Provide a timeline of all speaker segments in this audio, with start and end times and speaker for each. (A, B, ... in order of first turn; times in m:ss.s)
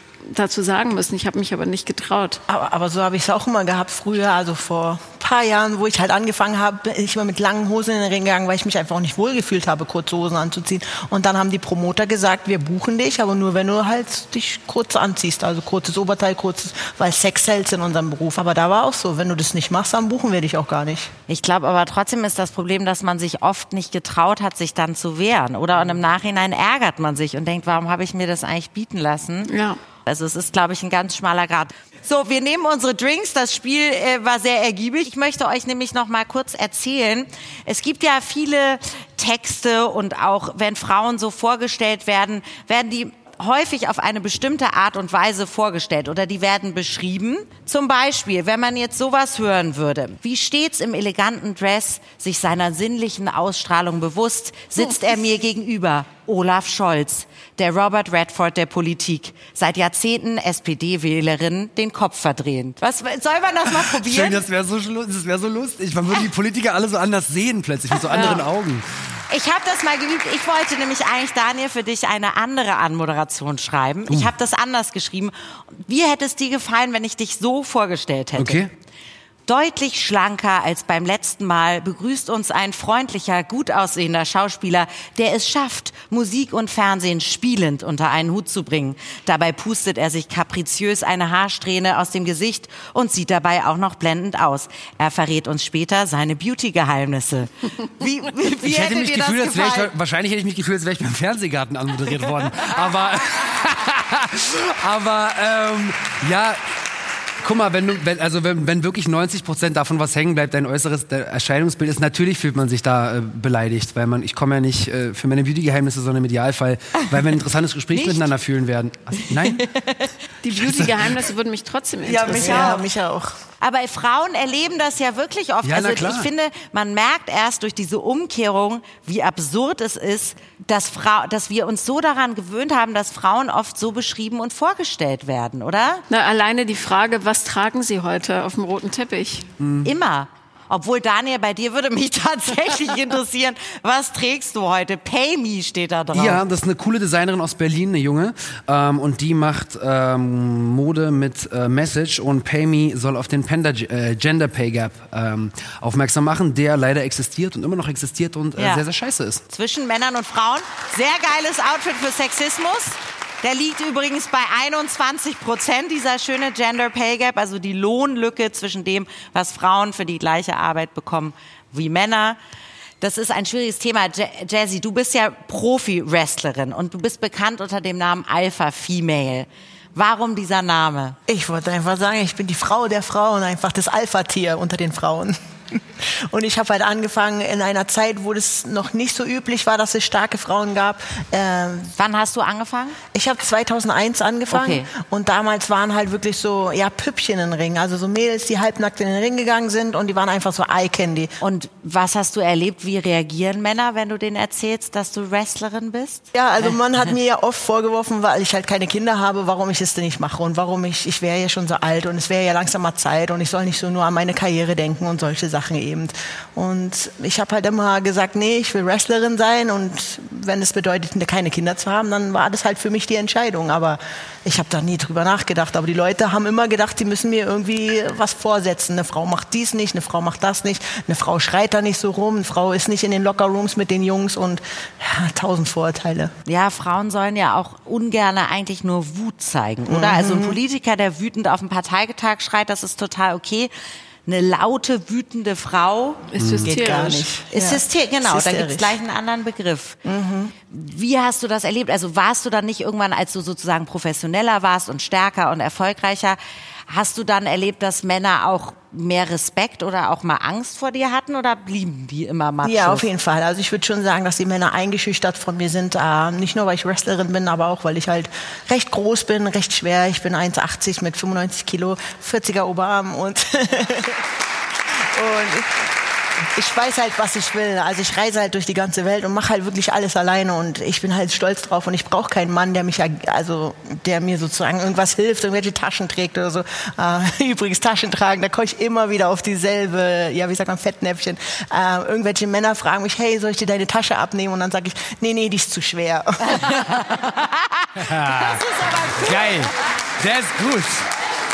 0:00.3-0:02.4 A
0:02.5-0:21.1 B
0:21.3-0:29.5 C
0:29.5-0:29.8 A
0:30.1-1:04.4 C
1:03.7-1:08.9 D
1:07.9-1:08.5 C
1:09.3-1:18.7 C
1:14.1-1:14.3 D
1:18.4-1:18.7 D
1:19.5-1:39.9 C
1:38.6-1:46.6 D
1:47.4-1:59.7 D
1:57.9-1:58.3 C
1:59.2-2:00.1 C
2:00.4-2:02.8 A
2:00.5-2:00.9 D
2:02.0-2:03.3 B
2:02.4-2:02.8 C
2:03.6-2:16.0 C
2:05.6-2:06.3 D
2:16.1-2:19.5 A
2:19.6-2:19.9 D
2:19.8-2:26.4 C
2:26.1-2:39.4 D
2:38.6-2:38.9 C
2:39.5-2:52.4 C
2:53.0-3:01.2 C
3:01.3-3:11.9 B
3:11.9-3:13.0 C
3:13.1-3:21.3 B
3:14.5-3:14.9 C
3:21.4-3:26.8 C
3:26.4-3:56.3 B
3:56.5-4:03.7 C
3:59.9-4:00.6 B
4:04.3-4:06.3 C
4:06.3-4:07.3 A
4:06.4-4:06.7 D
4:06.6-4:09.0 B
4:07.5-4:10.0 C
4:10.0-4:10.5 B
4:10.6-4:23.1 C
4:22.6-4:34.2 B
4:35.2-4:35.7 B
4:36.6-4:56.5 B
4:56.5-4:59.7 C
4:58.0-4:58.6 D
4:59.2-5:01.1 D